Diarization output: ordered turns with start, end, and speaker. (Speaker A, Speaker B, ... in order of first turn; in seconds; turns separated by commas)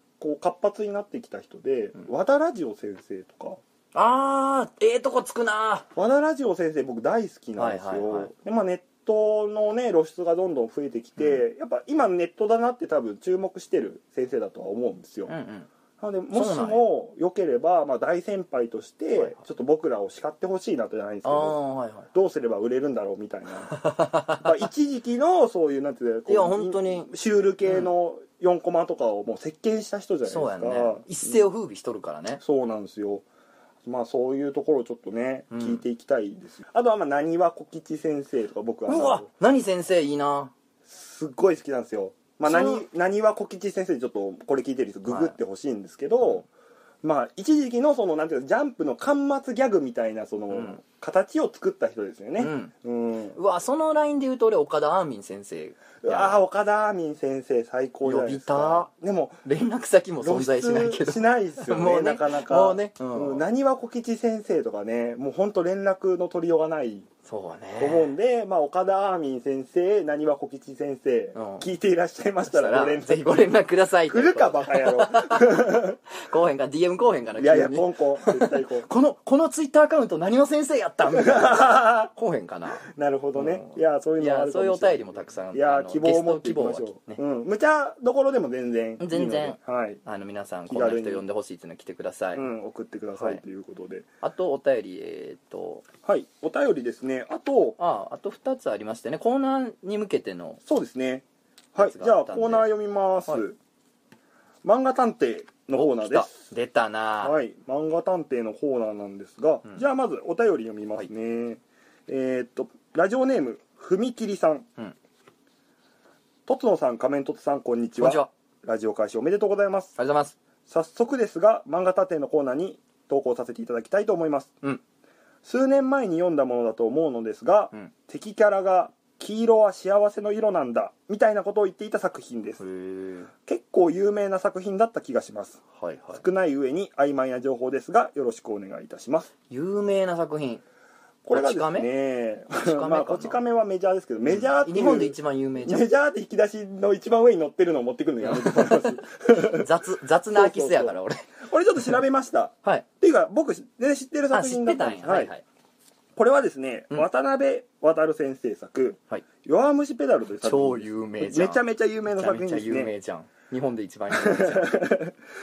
Speaker A: 0.2-3.6, Speaker B: 3.9-5.9, Speaker A: 6.0-15.3, Speaker B: 7.6-8.3, Speaker B: 15.3-15.7, Speaker A: 16.0-21.6, Speaker B: 16.3-16.9, Speaker B: 21.2-22.1, Speaker A: 22.1-23.8, Speaker B: 23.7-24.6, Speaker A: 24.4-31.4, Speaker B: 26.3-27.1, Speaker B: 27.6-27.9, Speaker B: 30.3-32.4, Speaker A: 32.4-33.2, Speaker A: 33.9-39.3, Speaker B: 35.5-35.8, Speaker B: 38.9-40.5, Speaker A: 40.9-46.4, Speaker B: 42.4-42.8, Speaker B: 45.1-45.4, Speaker A: 47.0-53.4, Speaker B: 50.5-50.8, Speaker B: 52.4-52.7, Speaker B: 53.4-56.4, Speaker A: 56.0-59.4, Speaker B: 58.0-58.9, Speaker B: 59.4-63.4, Speaker A: 60.2-67.1, Speaker B: 67.2-68.1, Speaker A: 67.8-73.2, Speaker B: 71.3-71.7, Speaker B: 72.5-87.2, Speaker A: 74.1-76.0, Speaker A: 77.4-78.9, Speaker A: 81.1-82.1, Speaker A: 82.8-90.0, Speaker B: 89.0-92.5, Speaker A: 90.7-91.2, Speaker A: 92.3-94.1, Speaker B: 93.2-93.4, Speaker B: 94.2-95.8, Speaker A: 96.0-97.8, Speaker B: 97.8-100.6, Speaker A: 100.7-103.6, Speaker B: 101.8-102.7, Speaker A: 104.6-106.4, Speaker B: 105.7-107.4, Speaker A: 107.2-114.7, Speaker A: 116.5-120.0, Speaker B: 118.0-118.3, Speaker B: 120.0-120.4, Speaker A: 120.7-124.5, Speaker A: 125.4-132.6, Speaker B: 132.6-133.3, Speaker A: 133.4-135.6, Speaker B: 135.7-136.2, Speaker A: 136.1-139.3, Speaker B: 139.5-140.6, Speaker A: 141.2-149.7, Speaker B: 141.3-141.9, Speaker B: 142.6-143.4, Speaker B: 144.3-145.8, Speaker B: 148.2-151.2, Speaker A: 150.3-155.3, Speaker B: 154.3-155.4, Speaker A: 156.2-162.9, Speaker B: 160.4-164.9, Speaker A: 164.1-165.1